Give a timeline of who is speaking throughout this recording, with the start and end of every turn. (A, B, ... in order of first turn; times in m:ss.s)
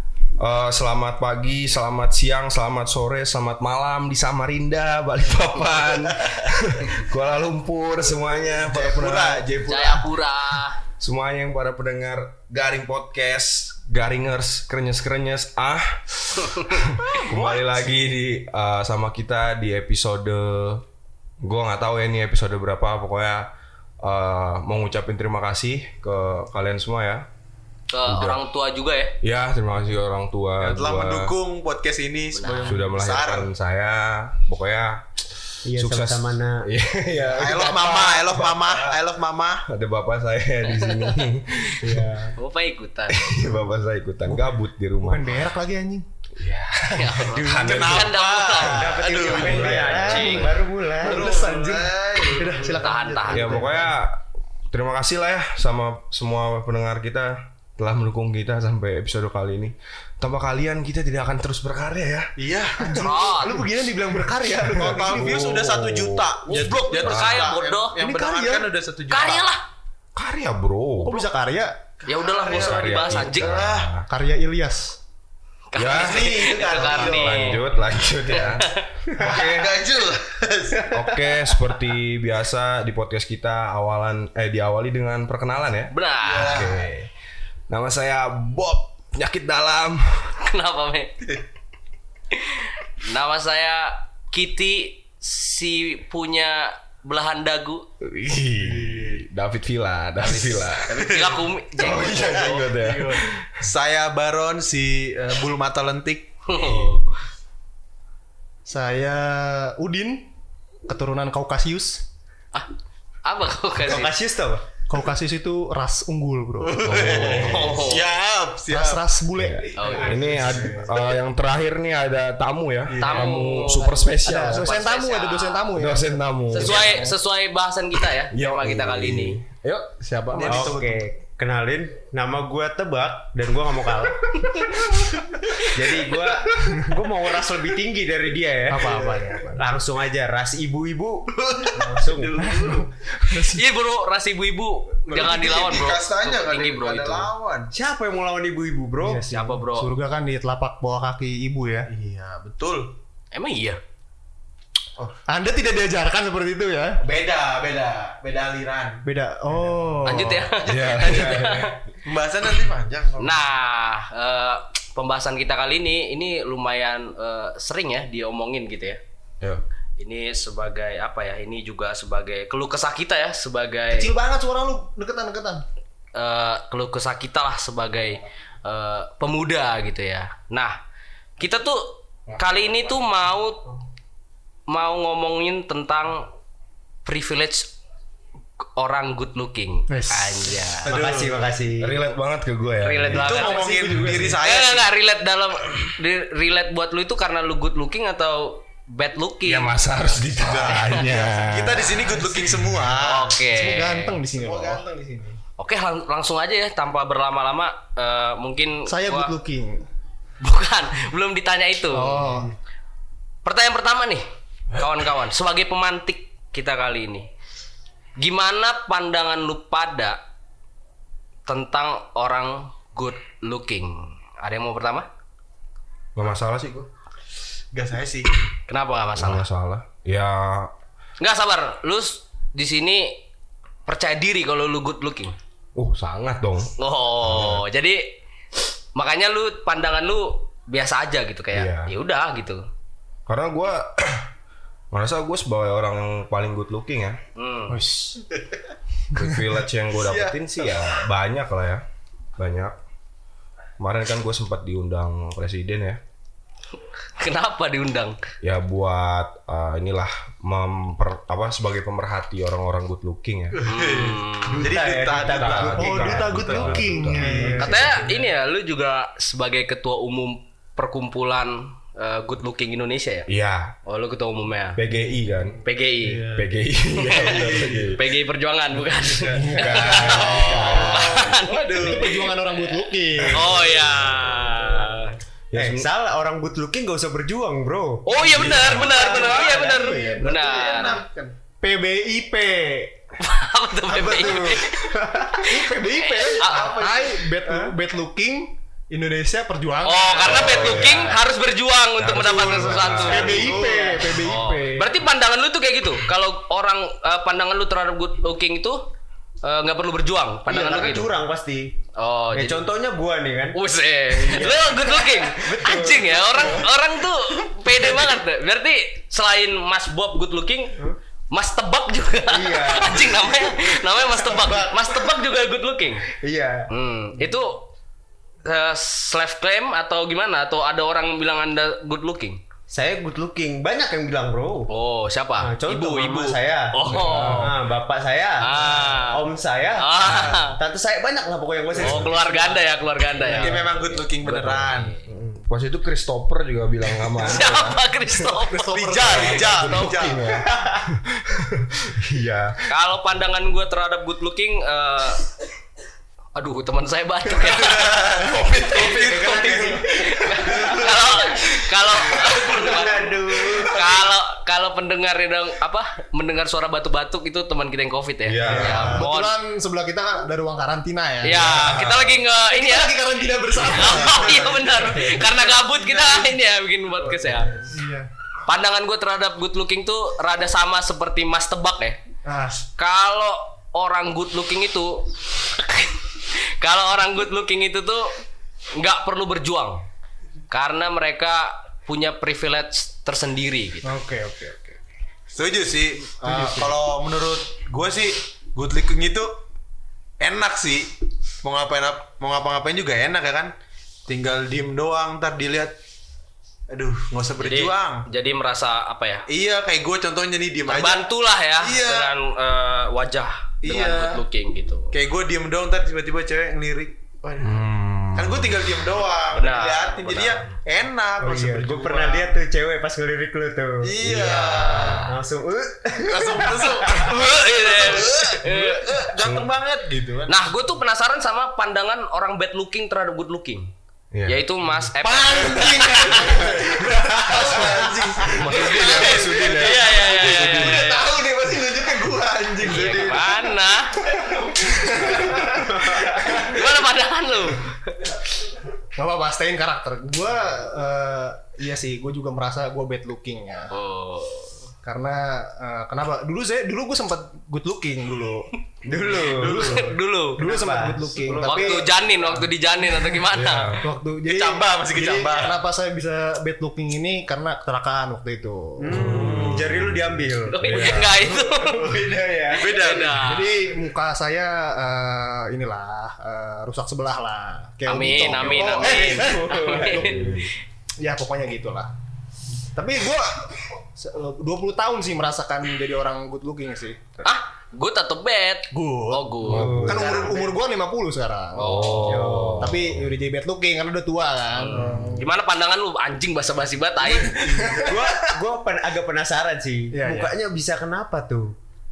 0:00.4-0:09.5 A
0:06.0-0:06.4 B
0:08.5-0:10.1 B
0:09.6-0:10.8 C
0:11.0-0:20.8 A
0:17.1-0:17.8 B
0:21.4-0:23.5 A
0:24.0-0:27.3 A
0:27.9-0:29.2 C
0:28.1-0:28.4 A
0:29.2-0:31.3 A
0:30.6-0:33.5 B
0:32.3-0:32.8 C
0:32.6-0:39.0 A
0:35.6-0:36.7 D
0:37.3-0:39.7 B
0:39.7-0:42.3 A
0:40.7-0:41.1 C
0:42.3-0:43.2 C
0:43.1-0:45.5 A
0:45.0-0:46.0 E
0:46.4-0:48.1 A
0:46.9-0:50.5 C
0:47.3-0:48.0 D
0:47.5-0:50.0 B
0:48.6-0:51.4 D
0:49.2-0:50.6 A
0:49.3-0:53.9 E
0:51.0-0:53.7 B
0:52.6-0:53.7 C
0:53.3-1:02.3 A
1:02.4-1:03.0 B
1:02.8-1:05.5 E
1:03.0-1:03.6 C
1:04.7-1:09.5 B
1:04.9-1:07.6 A
1:06.5-1:08.0 C
1:08.0-1:08.7 E
1:09.1-1:09.6 C
1:10.1-1:11.2 A
1:11.0-1:11.8 E
1:12.0-1:13.9 B
1:12.1-1:13.6 C
1:12.4-1:14.1 A
1:14.1-1:15.0 E
1:15.7-1:17.6 C
1:15.8-1:19.8 A
1:15.9-1:17.6 B
1:16.2-1:17.0 D
1:18.3-1:18.9 C
1:19.2-1:20.9 B
1:20.8-1:21.1 D
1:20.9-1:27.1 A
1:25.9-1:26.6 C
1:26.2-1:26.9 B
1:27.7-1:30.3 A
1:30.4-1:31.3 C
1:32.3-1:37.9 C
1:38.0-1:41.1 A
1:38.6-1:39.2 B
1:40.2-1:41.4 B
1:40.9-1:42.6 C
1:41.7-1:43.6 A
1:42.0-1:47.1 B
1:46.5-1:47.1 C
1:48.7-1:50.3 E
1:50.9-1:52.0 E
1:53.2-1:54.1 C
1:53.8-1:54.6 D
1:54.9-1:56.9 E
1:56.6-1:59.1 B
1:56.8-1:57.9 A
1:57.1-1:58.1 C
1:58.7-2:00.5 E
1:59.4-2:04.8 A
1:59.8-2:00.2 C
1:59.8-2:01.0 B
2:02.9-2:03.5 B
2:03.0-2:05.7 C
2:04.2-2:07.2 E
2:05.8-2:07.0 A
2:06.5-2:09.4 C
2:08.3-2:10.8 A
2:10.3-2:11.0 B
2:10.4-2:14.3 D
2:15.7-2:22.4 D
2:18.7-2:19.6 E
2:18.7-2:19.5 B
2:21.4-2:22.9 B
2:22.4-2:23.6 E
2:23.3-2:27.3 C
2:25.1-2:27.7 B
2:27.7-2:29.2 D
2:29.0-2:31.9 E
2:29.3-2:29.9 C
2:31.9-2:32.9 B
2:33.3-2:33.8 C
2:35.3-2:37.0 E
2:37.0-2:39.0 B
2:39.0-2:40.5 E
2:40.0-2:41.8 C
2:40.6-2:41.8 A
2:42.0-2:43.5 B
2:43.2-2:49.0 C
2:50.0-2:54.1 C
2:53.9-2:55.6 E
2:56.2-3:00.8 C
3:01.4-3:03.6 C
3:02.3-3:03.0 A
3:04.7-3:06.3 C
3:07.0-3:07.7 C
3:08.8-3:10.9 C
3:09.9-3:10.7 E
3:10.8-3:12.0 D
3:10.8-3:11.4 B
3:11.8-3:14.4 A
3:12.8-3:19.7 C
3:13.1-3:14.9 B
3:19.4-3:22.8 A
3:20.4-3:23.4 B
3:23.0-3:24.2 C
3:23.4-3:24.8 E
3:24.3-3:25.4 B
3:25.6-3:29.3 C
3:28.9-3:29.8 E
3:30.4-3:32.2 C
3:31.9-3:32.5 E
3:32.2-3:32.5 B
3:33.4-3:37.3 C
3:38.2-3:40.2 C
3:41.5-3:45.1 C
3:46.2-3:46.9 A
3:47.7-3:48.3 B
3:48.7-3:49.4 C
3:49.2-3:50.7 A
3:51.2-3:53.2 C
3:53.8-3:55.3 C
3:55.8-3:57.6 A
3:56.8-3:58.1 C
3:58.9-4:02.6 C
4:01.5-4:01.9 A
4:03.3-4:04.3 A
4:04.9-4:07.2 A
4:07.4-4:07.8 C
4:07.7-4:08.3 E
4:09.1-4:11.8 A
4:10.0-4:11.0 B
4:12.4-4:12.8 A
4:13.8-4:16.0 A
4:17.2-4:18.2 C
4:18.4-4:23.6 A
4:23.5-4:28.1 B
4:23.6-4:24.8 C
4:24.4-4:26.1 D
4:25.3-4:28.1 A
4:25.7-4:28.0 E
4:27.6-4:33.3 C
4:33.3-4:33.8 A
4:33.9-4:34.8 C
4:34.8-4:35.6 A
4:35.6-4:36.2 C
4:36.3-4:38.0 A
4:37.0-4:37.4 C
4:37.1-4:37.9 B
4:37.9-4:42.0 C
4:39.0-4:41.4 A
4:39.3-4:41.1 E
4:39.9-4:42.3 B
4:40.3-4:40.8 D
4:41.8-4:43.5 E
4:43.2-4:44.1 A
4:43.3-4:45.2 C
4:45.5-4:45.9 A
4:45.5-4:48.6 D
4:48.0-4:51.0 C
4:48.2-4:49.0 A
4:48.6-4:51.3 B
4:48.8-4:51.0 E
4:49.1-4:49.4 D
4:51.6-4:52.9 E
4:53.2-4:56.9 C
4:53.9-4:55.4 D
4:54.2-4:54.6 B
4:55.4-5:01.1 E
4:56.4-4:57.1 B
4:57.4-4:57.7 D
4:59.8-5:03.6 C
5:00.2-5:01.2 A
5:02.0-5:03.6 A
5:02.1-5:04.9 E
5:03.2-5:04.1 D
5:04.2-5:08.8 C
5:09.4-5:11.1 C
5:10.5-5:11.7 D
5:12.0-5:12.6 C
5:12.3-5:13.6 D
5:13.5-5:20.8 C
5:14.1-5:16.7 D
5:21.3-5:26.1 C
5:22.3-5:24.8 D
5:26.1-5:26.7 D
5:26.7-5:27.7 C
5:28.4-5:32.4 C
5:32.7-5:34.7 D
5:34.7-5:37.5 C
5:35.4-5:42.7 D
5:36.9-5:37.6 A
5:38.4-5:39.2 C
5:39.8-5:40.6 C
5:41.8-5:42.1 A
5:41.8-5:43.6 C
5:43.2-5:44.9 B
5:44.2-5:48.1 A
5:44.7-5:45.0 C
5:47.3-5:50.0 C
5:48.4-5:49.4 E
5:48.7-5:50.2 B
5:49.1-5:52.6 A
5:50.5-5:50.8 D
5:52.7-5:55.2 C
5:56.4-6:09.3 C
5:57.6-5:59.8 B
5:58.2-5:59.3 A
5:58.8-6:01.0 D
6:00.3-6:01.4 B
6:02.2-6:04.0 D
6:08.2-6:09.1 A
6:08.5-6:11.9 E
6:11.2-6:12.9 C
6:11.3-6:12.1 A
6:12.5-6:15.5 E
6:13.5-6:17.5 C
6:17.4-6:18.1 E
6:18.4-6:22.0 C
6:22.2-6:22.6 E
6:22.8-6:28.1 C
6:28.8-6:29.8 C
6:30.5-6:34.0 C
6:33.8-6:34.8 E
6:35.3-6:39.4 B
6:36.2-6:36.7 E
6:40.2-6:40.9 B
6:41.4-6:43.5 B
6:44.1-6:45.7 B
6:46.7-6:48.1 B
6:47.4-6:49.2 C
6:49.3-6:52.1 B
6:50.7-6:55.0 C
6:53.6-6:54.2 B
6:54.9-7:02.4 B
6:57.4-6:58.8 A
6:59.3-7:00.5 C
7:01.2-7:06.9 D
7:03.8-7:05.0 B
7:04.7-7:05.1 C
7:06.1-7:10.4 B
7:06.9-7:09.0 C
7:09.2-7:09.5 A
7:10.3-7:13.7 C
7:14.1-7:14.4 A
7:14.2-7:16.4 C
7:15.0-7:19.5 E
7:15.1-7:23.5 B
7:17.4-7:17.8 A
7:18.3-7:20.9 A
7:18.4-7:21.0 C
7:20.0-7:23.3 E
7:22.6-7:24.0 C
7:24.1-7:26.2 B
7:24.1-7:26.6 E
7:25.8-7:26.3 D
7:26.2-7:28.0 C
7:28.9-7:33.7 E
7:33.7-7:34.5 C
7:34.8-7:42.4 E
7:38.8-7:41.9 D
7:39.2-7:39.8 B
7:39.4-7:40.4 C
7:41.4-7:43.8 C
7:43.3-7:43.9 A
7:43.8-7:49.4 E
7:44.2-7:45.6 B
7:48.8-7:52.7 D
7:48.9-7:51.4 A
7:50.5-7:52.0 C
7:51.7-7:51.9 E
7:52.5-7:53.4 B
7:52.5-7:53.5 C
7:53.0-8:00.5 E
7:57.9-8:00.4 C
7:58.3-8:00.5 A
7:58.8-7:59.8 D
8:01.0-8:01.9 E
8:02.7-8:07.0 E
8:07.2-8:10.2 C
8:08.7-8:12.0 E
8:09.4-8:10.2 A
8:09.5-8:10.5 D
8:11.6-8:12.5 C
8:11.6-8:13.2 A
8:12.1-8:12.7 D
8:12.6-8:15.3 E
8:14.6-8:17.4 C
8:17.2-8:18.0 E
8:17.8-8:21.5 D
8:19.9-8:20.3 E